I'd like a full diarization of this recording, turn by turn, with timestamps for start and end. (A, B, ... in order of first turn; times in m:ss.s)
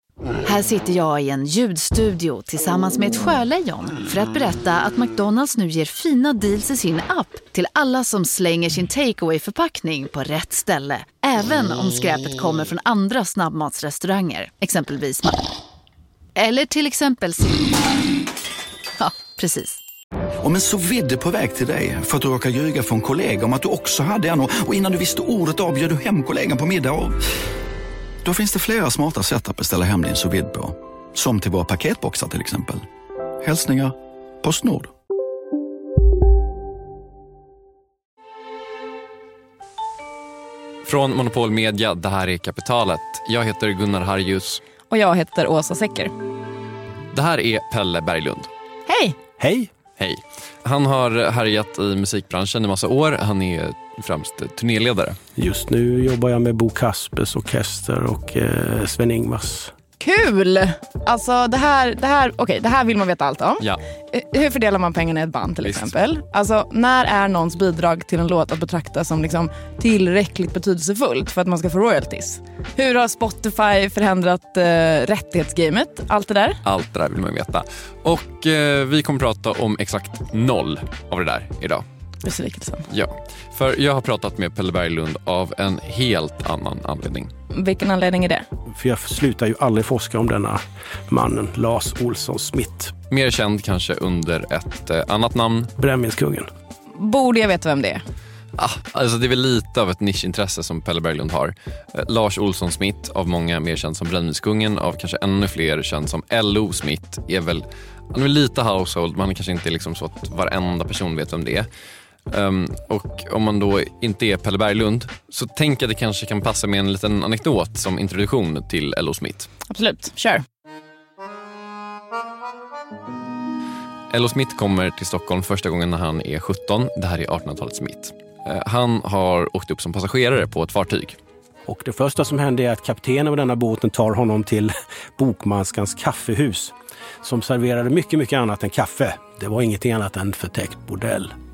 0:00.4-0:15.5 A
0:16.4-0:17.9 A
0:19.0-0:19.8 A
0:20.4-0:27.2 B
0:28.2-0:32.9 B
0:33.4-0:34.9 B
0:40.9-0:44.6 C
0:44.9-0:46.1 D
0:47.1-0:48.5 C
0:48.9-0:49.2 D
0:49.4-0:49.7 E
0:50.0-0:55.2 C
0:55.4-0:59.7 E
1:00.0-1:16.6 D
1:05.6-1:05.9 C
1:16.6-1:21.8 C
1:22.2-1:22.9 D
1:22.9-1:27.3 C
1:27.5-1:28.5 D
1:28.7-1:32.9 E
1:33.1-1:35.7 C
1:35.8-1:36.5 E
1:36.9-1:38.0 D
1:38.6-1:51.7 C
1:52.3-1:59.5 C
1:59.7-2:00.4 D
2:04.1-2:11.2 C
2:11.7-2:21.3 E